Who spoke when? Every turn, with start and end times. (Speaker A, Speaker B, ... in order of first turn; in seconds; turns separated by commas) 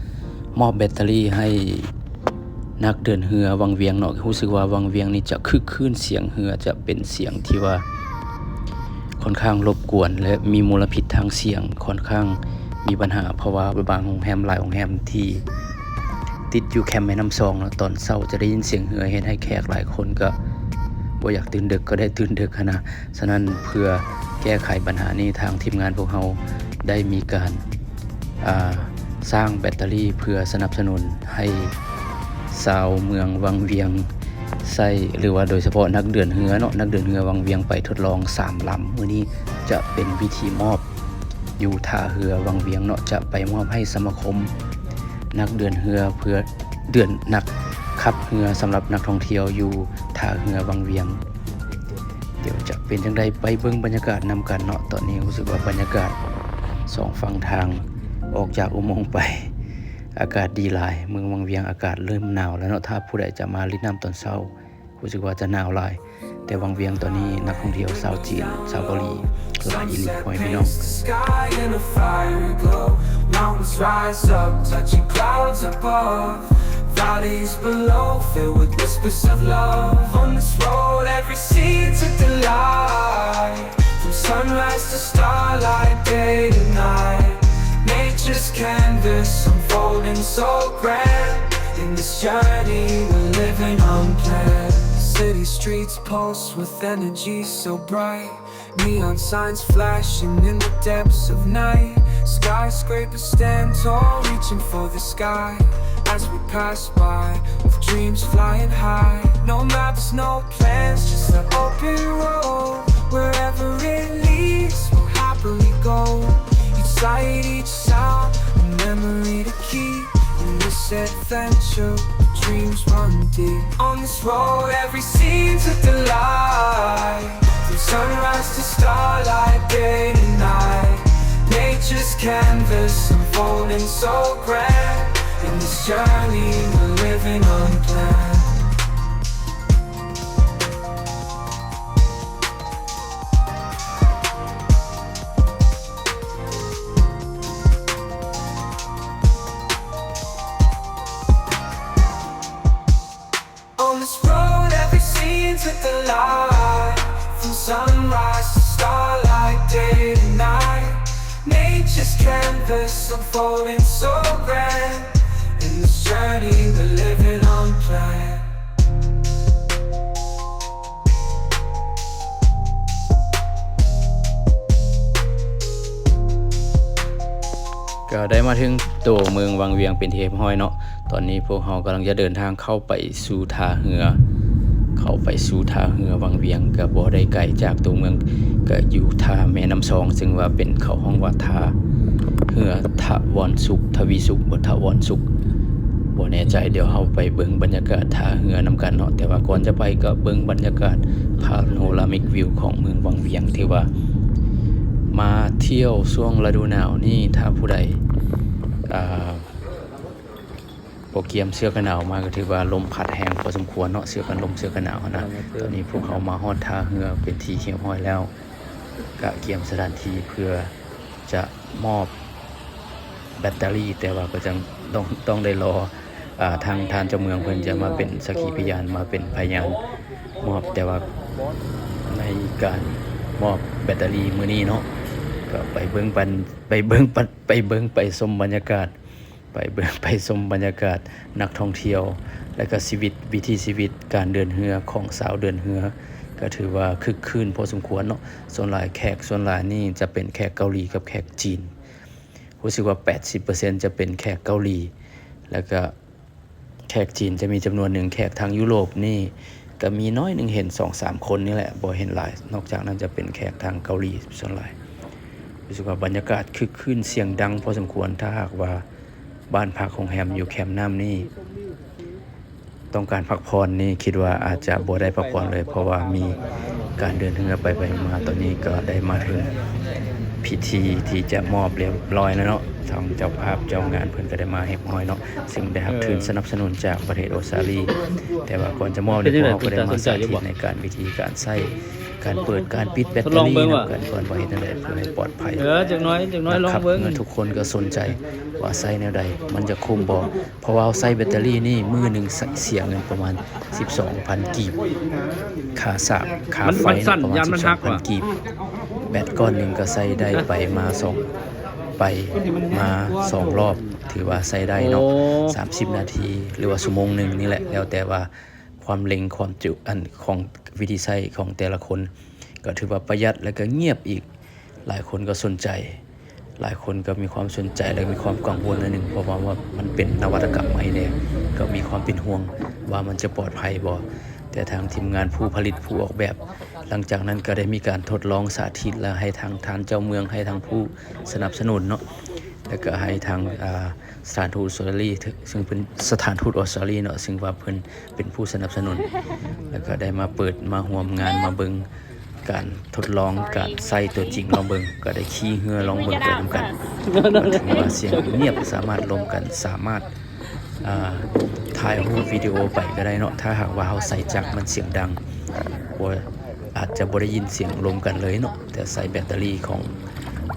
Speaker A: 0.5-1.9, Speaker A: 2.8-7.8, Speaker A: 9.2-15.4, Speaker A: 16.5-20.4, Speaker A: 21.2-27.6, Speaker A: 28.4-31.8, Speaker A: 32.5-34.1, Speaker A: 34.6-40.8, Speaker A: 41.6-44.5, Speaker A: 45.3-51.2, Speaker A: 52.4-56.2, Speaker A: 56.9-59.5, Speaker A: 60.1-70.9, Speaker B: 67.8-68.8, Speaker B: 69.7-138.8, Speaker B: 153.8-168.5, Speaker A: 178.1-184.2, Speaker A: 184.9-191.8, Speaker A: 192.5-195.2, Speaker A: 196.1-203.9, Speaker A: 205.1-208.0, Speaker A: 208.9-209.5, Speaker A: 211.1-218.3, Speaker C: 215.1-215.8, Speaker A: 219.2-220.7, Speaker A: 221.3-222.1, Speaker A: 223.3-229.8, Speaker A: 230.4-231.1, Speaker A: 232.1-234.9, Speaker A: 235.5-238.9, Speaker A: 239.5-251.7, Speaker A: 252.6-254.9, Speaker A: 255.5-255.9, Speaker A: 256.9-264.7, Speaker A: 265.7-268.8, Speaker A: 269.5-271.3, Speaker A: 272.9-276.4, Speaker A: 277.0-279.5, Speaker A: 280.4-287.9, Speaker C: 285.9-286.3, Speaker A: 288.4-295.7, Speaker C: 289.2-290.4, Speaker C: 293.2-293.9, Speaker C: 295.6-297.2, Speaker A: 296.5-304.8, Speaker A: 305.7-308.3, Speaker C: 306.6-308.0, Speaker A: 309.1-311.2, Speaker A: 312.0-322.1, Speaker C: 314.8-315.6, Speaker A: 322.6-324.3, Speaker A: 324.9-326.0, Speaker A: 326.6-342.0, Speaker A: 342.7-349.1, Speaker A: 349.7-351.9, Speaker A: 352.4-360.1, Speaker C: 357.0-358.2, Speaker A: 360.8-365.2, Speaker A: 365.9-370.0